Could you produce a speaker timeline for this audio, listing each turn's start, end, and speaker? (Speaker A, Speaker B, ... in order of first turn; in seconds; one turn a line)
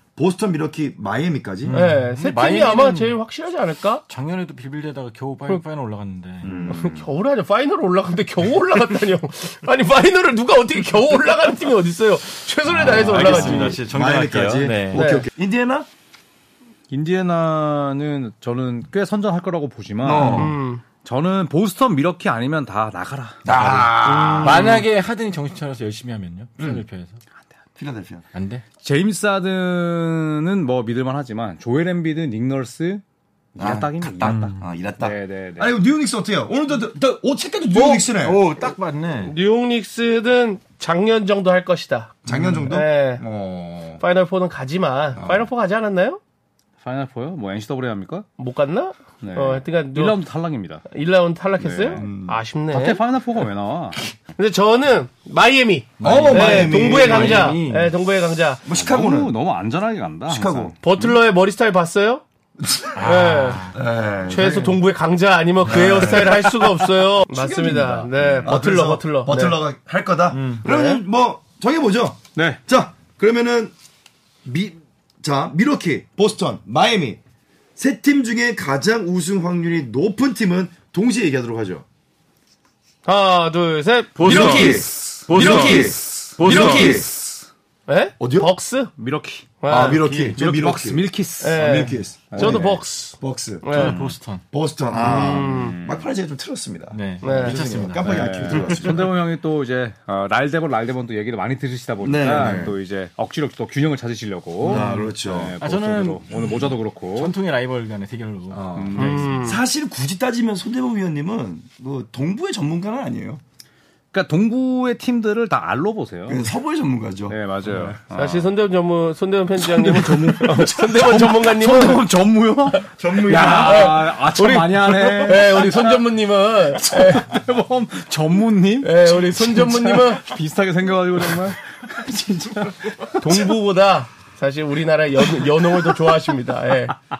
Speaker A: 0.2-1.8
Speaker B: 1.7-3.2
Speaker C: 1.7-4.0
Speaker B: 4.1-6.5
Speaker A: 6.4-7.1
Speaker C: 6.7-13.8
Speaker B: 12.7-15.1
Speaker A: 12.8-15.9
Speaker C: 14.9-15.3
Speaker D: 16.9-24.9
Speaker A: 20.0-20.6
Speaker C: 20.2-20.8
Speaker A: 23.4-24.7
Speaker B: 24.4-27.2
Speaker A: 26.6-26.8
Speaker A: 27.8-28.2
Speaker B: 28.3-28.6
Speaker D: 28.8-33.0
Speaker D: 33.5-35.7
Speaker A: 33.6-38.5
Speaker B: 37.7-39.3
Speaker C: 39.2-43.2
Speaker A: 42.3-44.0
Speaker C: 44.0-46.2
Speaker A: 45.2-45.5
Speaker D: 46.8-48.3
Speaker C: 48.4-50.2
Speaker D: 49.2-50.9
Speaker C: 50.9-53.0
Speaker D: 51.6-52.1
Speaker A: 52.0-52.4
Speaker D: 52.7-54.0
Speaker C: 54.4-58.6
Speaker A: 56.0-57.6
Speaker D: 56.0-56.8
Speaker B: 56.0-57.9
Speaker A: 58.6-59.3
Speaker D: 58.7-61.2
Speaker A: 60.3-60.7
Speaker C: 60.8-62.2
Speaker A: 62.6-63.0
Speaker B: 63.0-63.8
Speaker C: 63.0-63.7
Speaker A: 63.7-64.8
Speaker C: 64.3-69.6
Speaker D: 65.7-66.4
Speaker A: 65.7-66.4
Speaker A: 67.3-73.7
Speaker D: 68.2-68.5
Speaker B: 70.3-70.6
Speaker C: 70.6-71.0
Speaker D: 72.3-72.6
Speaker A: 74.5-77.2
Speaker A: 77.8-81.8
Speaker C: 83.0-84.8
Speaker B: 84.2-87.1
Speaker D: 84.2-87.1
Speaker A: 84.2-87.1
Speaker C: 87.9-88.9
Speaker A: 88.2-88.5
Speaker D: 89.0-92.8
Speaker C: 89.6-90.0
Speaker A: 89.7-93.8
Speaker C: 91.4-94.0
Speaker B: 93.7-94.4
Speaker D: 93.8-94.2
Speaker A: 94.5-99.2
Speaker D: 94.9-96.1
Speaker C: 95.0-95.8
Speaker B: 96.9-99.0
Speaker C: 97.2-97.7
Speaker D: 98.0-107.3
Speaker A: 102.0-102.8
Speaker A: 104.6-105.6
Speaker B: 104.7-109.3
Speaker A: 108.5-113.4
Speaker D: 108.8-109.4
Speaker C: 109.0-109.6
Speaker D: 114.1-116.4
Speaker A: 116.3-118.0
Speaker D: 117.3-118.5
Speaker C: 118.2-122.1
Speaker D: 119.6-133.5
Speaker A: 123.0-124.0
Speaker C: 123.3-127.3
Speaker C: 128.8-130.2
Speaker C: 133.2-136.9